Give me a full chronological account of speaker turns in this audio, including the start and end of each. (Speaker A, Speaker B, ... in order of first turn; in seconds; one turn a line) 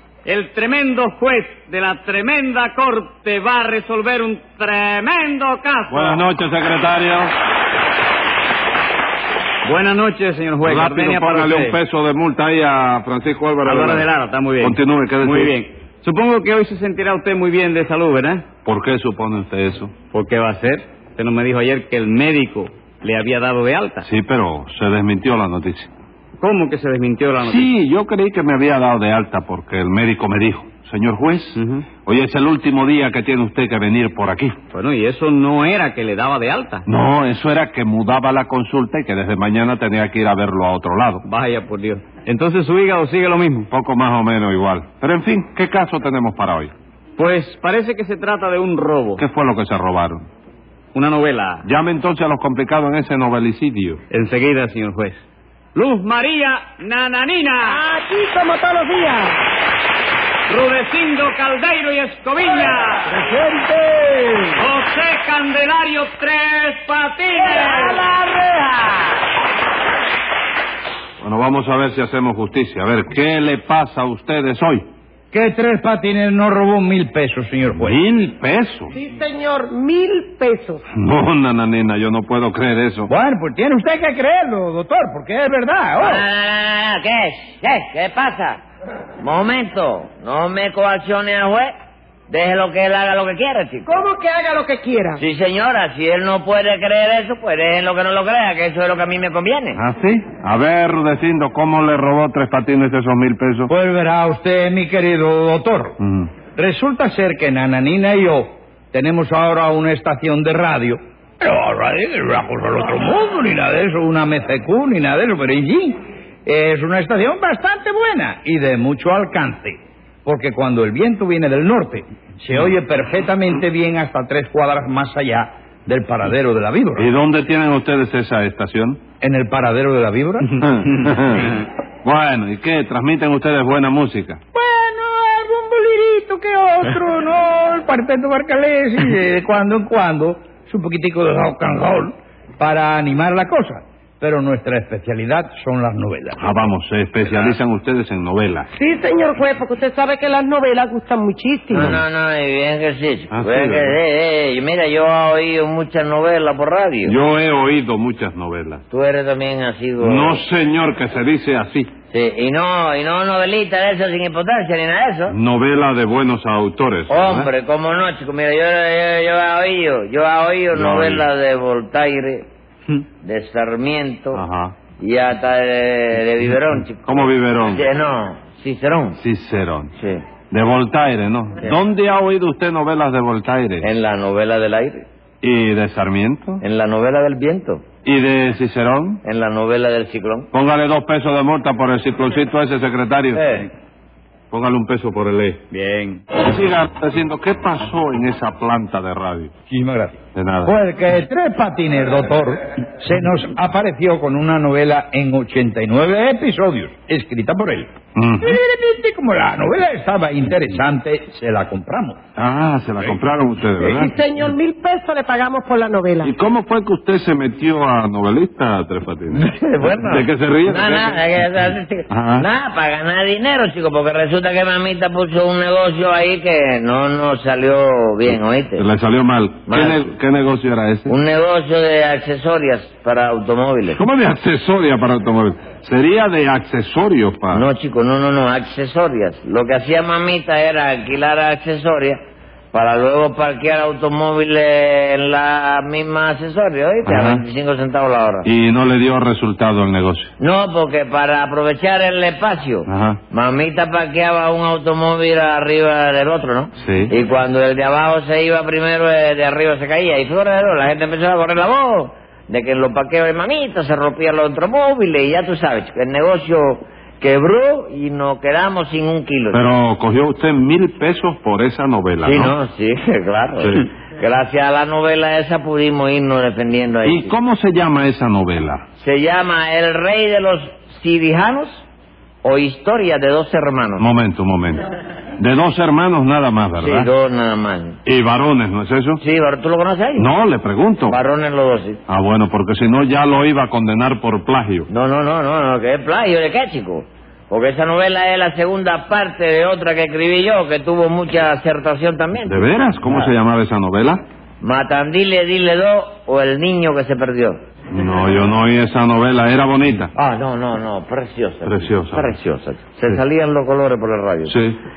Speaker A: 0.2-6.2
Speaker B: 5.9-7.3
Speaker A: 9.6-11.8
Speaker B: 10.6-14.1
Speaker A: 13.6-18.4
Speaker B: 14.6-15.5
Speaker B: 18.6-19.9
Speaker A: 20.1-24.1
Speaker B: 24.0-25.9
Speaker A: 26.4-27.7
Speaker B: 27.4-34.6
Speaker A: 31.6-31.9
Speaker A: 34.7-36.8
Speaker B: 36.9-41.2
Speaker A: 41.2-43.7
Speaker B: 43.7-46.7
Speaker A: 47.2-49.2
Speaker B: 49.2-50.2
Speaker A: 51.0-51.6
Speaker B: 51.6-54.0
Speaker A: 54.1-55.2
Speaker A: 55.7-57.8
Speaker C: 57.6-59.4
Speaker A: 60.5-63.2
Speaker D: 63.2-64.4
Speaker A: 64.6-68.0
Speaker B: 71.2-74.9
Speaker D: 75.3-78.0
Speaker B: 77.8-78.9
Speaker C: 78.9-80.8
Speaker B: 80.9-83.1
Speaker D: 83.1-86.2
Speaker E: 86.0-88.6
Speaker E: 89.2-91.7
Speaker E: 92.3-94.0
Speaker C: 93.9-95.2
Speaker E: 95.2-99.8
Speaker B: 99.8-103.7
Speaker D: 103.7-106.0
Speaker B: 106.0-106.3
Speaker D: 106.5-127.1
Speaker B: 127.0-129.0
Speaker D: 129.2-130.6
Speaker B: 130.6-134.4
Speaker D: 134.5-146.5
Speaker B: 146.4-148.7
Speaker D: 147.2-147.6
Speaker C: 148.7-152.0
Speaker E: 151.7-157.2
Speaker B: 153.3-153.9
Speaker B: 157.1-158.8
Speaker E: 158.9-160.4
Speaker B: 160.0-161.9
Speaker E: 162.1-165.4
Speaker B: 165.3-167.5
Speaker E: 167.1-172.5
Speaker B: 170.7-171.2
Speaker E: 173.2-174.4
Speaker B: 174.3-174.8
Speaker E: 175.0-179.2
Speaker B: 177.1-177.8
Speaker B: 179.2-179.9
Speaker B: 180.5-183.9
Speaker E: 183.8-185.1
Speaker B: 185.4-186.6
Speaker E: 186.6-187.8
Speaker B: 188.1-189.2
Speaker E: 189.2-190.5
Speaker B: 190.5-193.6
Speaker B: 194.5-195.6
Speaker A: 195.7-196.3
Speaker B: 196.4-199.5
Speaker D: 199.7-212.2
Speaker B: 200.3-200.7
Speaker B: 208.2-208.6
Speaker B: 212.4-214.1
Speaker C: 213.8-216.3
Speaker B: 216.2-219.4
Speaker E: 219.3-228.9
Speaker B: 220.0-221.2
Speaker B: 222.1-222.5
Speaker B: 228.8-231.1
Speaker E: 229.7-230.1
Speaker E: 231.1-234.0
Speaker B: 233.9-237.7
Speaker E: 237.5-242.2
Speaker E: 242.7-248.5
Speaker B: 247.1-247.4
Speaker B: 248.4-250.3
Speaker E: 250.4-269.6
Speaker B: 252.9-253.2
Speaker B: 256.8-257.1
Speaker B: 269.5-272.5
Speaker E: 272.2-277.3
Speaker B: 273.6-273.8
Speaker B: 277.0-278.8
Speaker E: 278.9-281.9
Speaker E: 282.4-284.1
Speaker B: 284.0-284.9
Speaker B: 285.4-287.1
Speaker E: 286.8-288.0
Speaker B: 288.0-289.2
Speaker E: 289.2-290.3
Speaker B: 290.1-291.2
Speaker E: 291.1-292.0
Speaker B: 292.1-294.9
Speaker E: 294.9-303.3
Speaker B: 302.4-304.2
Speaker E: 304.6-307.6
Speaker B: 307.9-310.1
Speaker E: 310.1-314.6
Speaker B: 311.6-312.3
Speaker B: 314.5-314.8